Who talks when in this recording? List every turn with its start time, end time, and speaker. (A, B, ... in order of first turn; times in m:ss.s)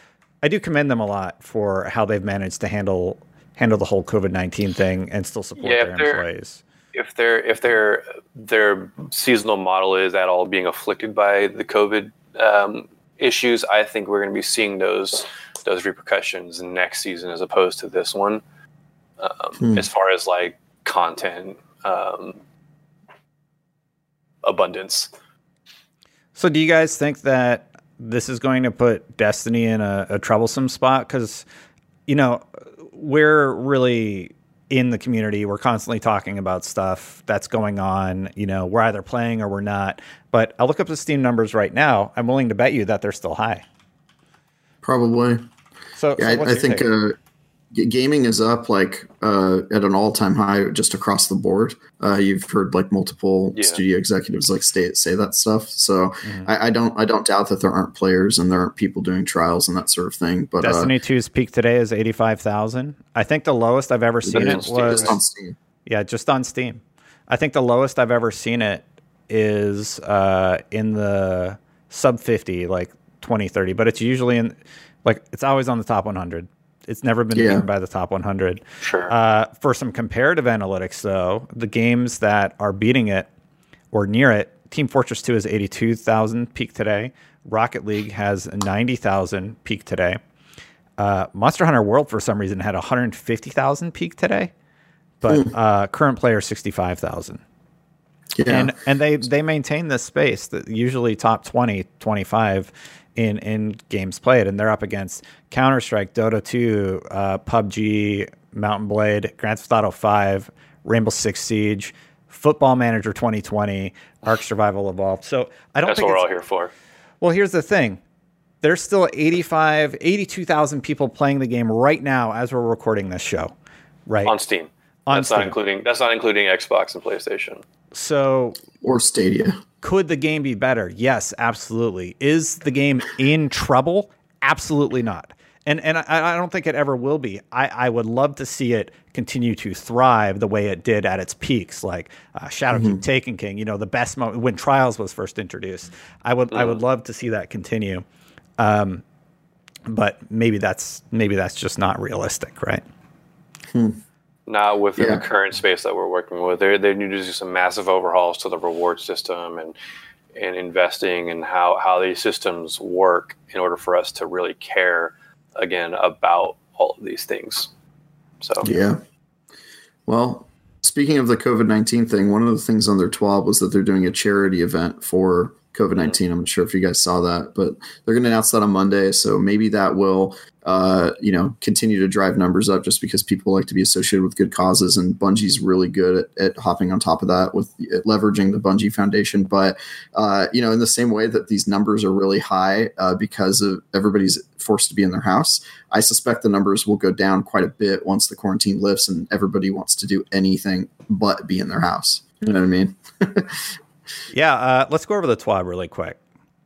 0:00.4-0:06.6 A
0:05.6-0:06.2 B
0:06.9-0:18.4 B
0:19.2-0:22.4 B
0:24.4-0:25.1 B
0:26.4-0:31.5 A
0:32.1-0:43.6 A
0:44.8-0:45.4 C
0:46.0-0:46.9 A
0:46.2-0:47.2 C
0:47.7-1:00.9 C
0:53.6-0:53.8 B
0:56.2-0:56.5 A
1:00.6-1:05.2 A
1:04.2-1:05.6 C
1:04.3-1:05.1 B
1:05.9-1:23.3 A
1:17.4-1:17.6 C
1:18.8-1:19.1 B
1:23.9-1:30.2 A
1:31.0-1:34.5 A
1:35.2-1:37.4 A
1:38.4-1:38.7 C
1:38.5-1:56.2 A
1:55.8-1:56.7 B
1:57.2-1:58.0 A
1:58.6-2:03.5 A
2:04.1-2:04.4 A
2:04.2-2:07.6 B
2:05.1-2:05.5 A
2:07.9-2:08.6 A
2:08.8-2:09.6 C
2:09.8-2:28.0 A
2:22.7-2:23.0 C
2:26.5-2:26.8 B
2:28.6-2:29.0 A
2:29.9-2:32.8 A
2:33.7-2:34.0 C
2:34.5-2:39.8 B
2:35.0-2:35.2 C
2:40.4-2:47.7 B
2:48.4-2:48.7 B
2:48.6-2:49.0 C
2:50.1-3:23.6 C
3:24.3-3:26.2 A